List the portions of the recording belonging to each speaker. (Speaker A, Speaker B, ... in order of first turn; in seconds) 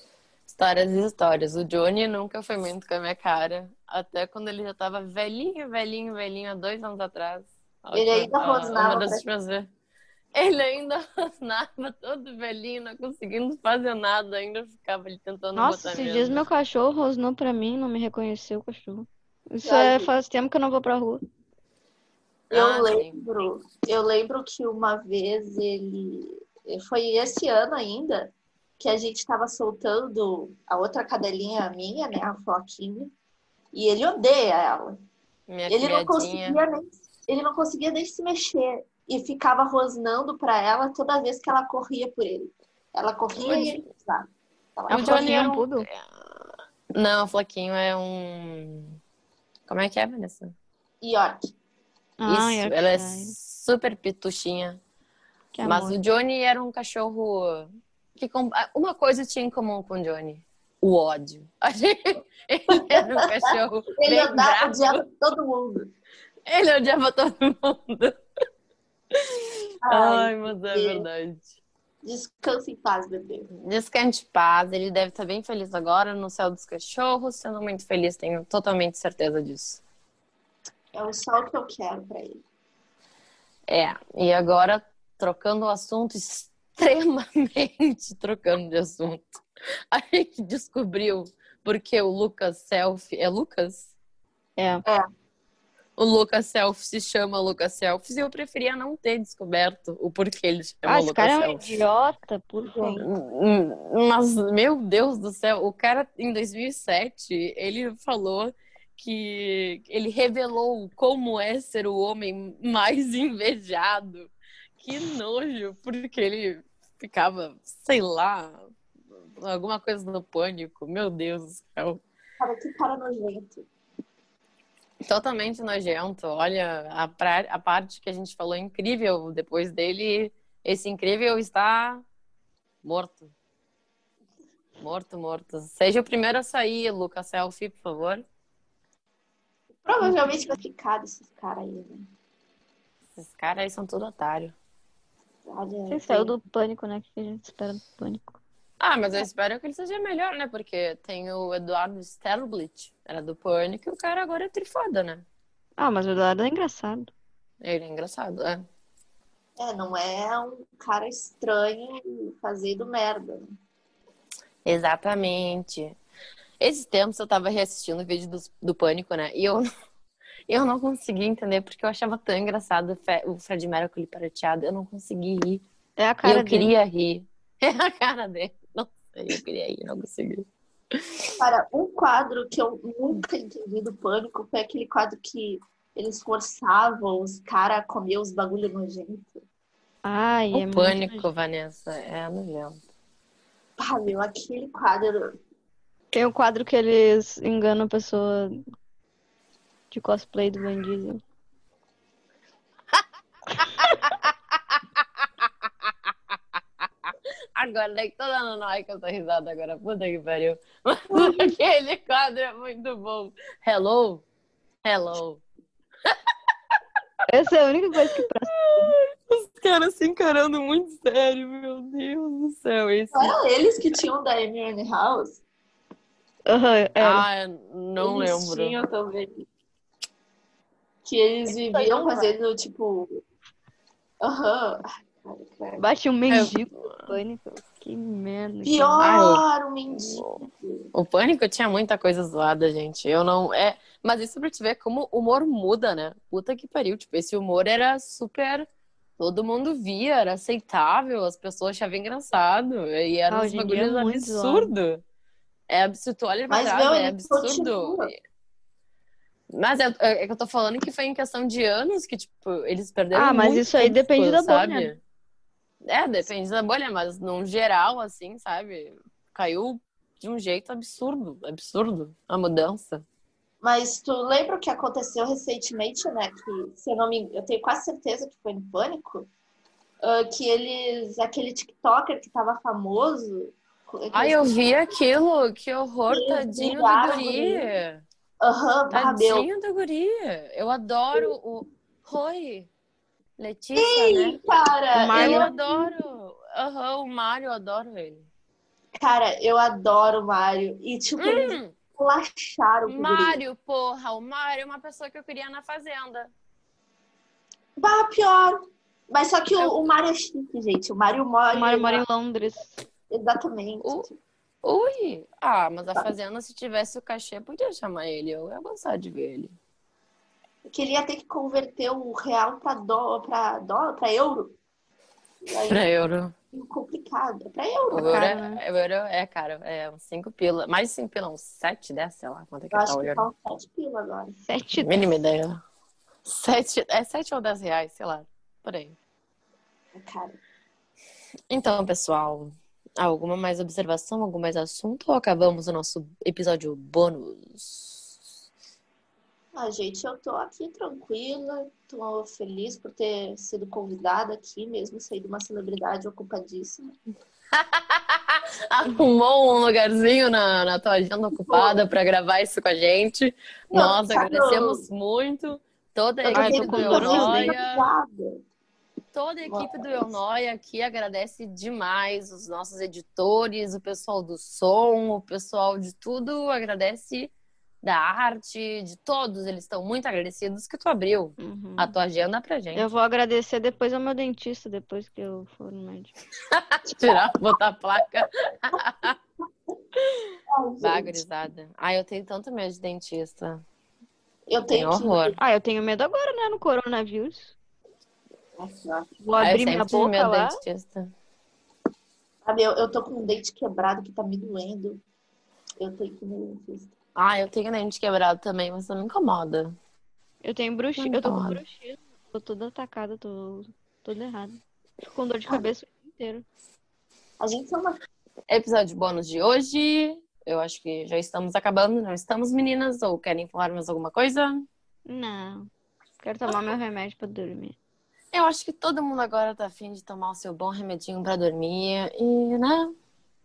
Speaker A: 0.5-9.7, 10.3-16.4, 22.5-23.2, 35.5-36.6, 43.4-43.8, 44.9-46.0, 46.9-49.0, 49.7-50.5, 52.2-54.8, 55.6-65.0, 66.5-68.2, 69.3-71.5, 73.5-79.8, 83.7-89.3, 89.9-93.9, 96.0-101.8, 103.0-118.7, 119.4-122.0, 125.1-132.0, 132.8-133.3, 134.8-138.2, 143.2-144.6, 148.8-155.2, 157.6-158.6, 164.7-166.0, 166.6-169.7, 170.5-175.6, 176.2-180.5, 190.5-192.8, 203.8-204.8, 207.6-214.2, 214.8-215.4, 218.6-223.3, 227.0-228.8, 236.3-237.2, 239.0-239.4, 240.9-255.0, 255.7-258.2, 259.5-265.0, 265.9-273.0, 284.1-288.0, 288.9-292.7, 293.4-294.4, 295.1-298.3, 301.2-301.8, 302.9-306.3, 313.8-314.1, 314.6-319.5, 325.7-326.3, 327.9-333.2, 334.8-335.6, 336.3-339.0, 341.5-348.2, 357.6-367.9, 369.1-377.3, 377.8-382.9, 386.5-389.2, 390.8-393.6, 394.7-395.4, 399.4-401.1, 407.1-409.7, 411.0-411.6, 418.5-424.7, 428.3-432.9
Speaker B: 7.9-9.2, 19.6-20.1, 22.5-33.1, 33.7-35.0, 35.7-45.3, 51.0-51.5, 62.8-63.2, 63.9-65.9, 69.8-71.1, 72.0-73.5, 80.9-82.4, 102.7-103.0, 122.4-123.7, 139.8-142.1, 145.5-146.3, 159.6-163.6, 181.4-189.4, 193.8-195.3, 211.1-211.5, 223.1-225.4, 228.0-229.5, 231.1-233.2, 234.2-235.9, 238.6-240.9, 256.5-258.1, 273.6-279.3, 280.0-284.6, 286.1-287.7, 288.4-289.5, 293.8-295.9, 299.0-303.4, 307.8-308.6, 309.1-312.0, 313.1-314.2, 320.7-324.6, 325.4-325.9, 326.5-328.3, 332.7-334.4, 339.9-340.4, 349.5-356.9, 361.5-361.8, 363.7-364.9, 366.2-368.4, 369.5-370.2, 390.5-391.2, 394.5-395.4, 398.6-399.1, 402.4-405.0, 405.8-406.9, 417.4-418.0
Speaker C: 15.6-21.2, 44.9-45.9, 52.2-53.4, 55.5-56.0, 94.6-94.8, 100.8-103.1, 140.0-140.5, 145.9-148.4, 155.8-157.1, 176.0-176.7, 190.0-191.3, 196.1-198.6, 199.9-201.2, 217.3-218.9, 226.5-227.3, 231.5-232.3, 235.8-239.2, 253.3-254.7, 263.1-264.9, 294.9-295.5, 311.5-312.8, 328.1-328.6, 334.4-335.2, 366.3-367.6, 381.4-381.9, 382.7-386.1, 395.4-397.6, 399.2-400.6, 410.4-416.4, 425.1-427.8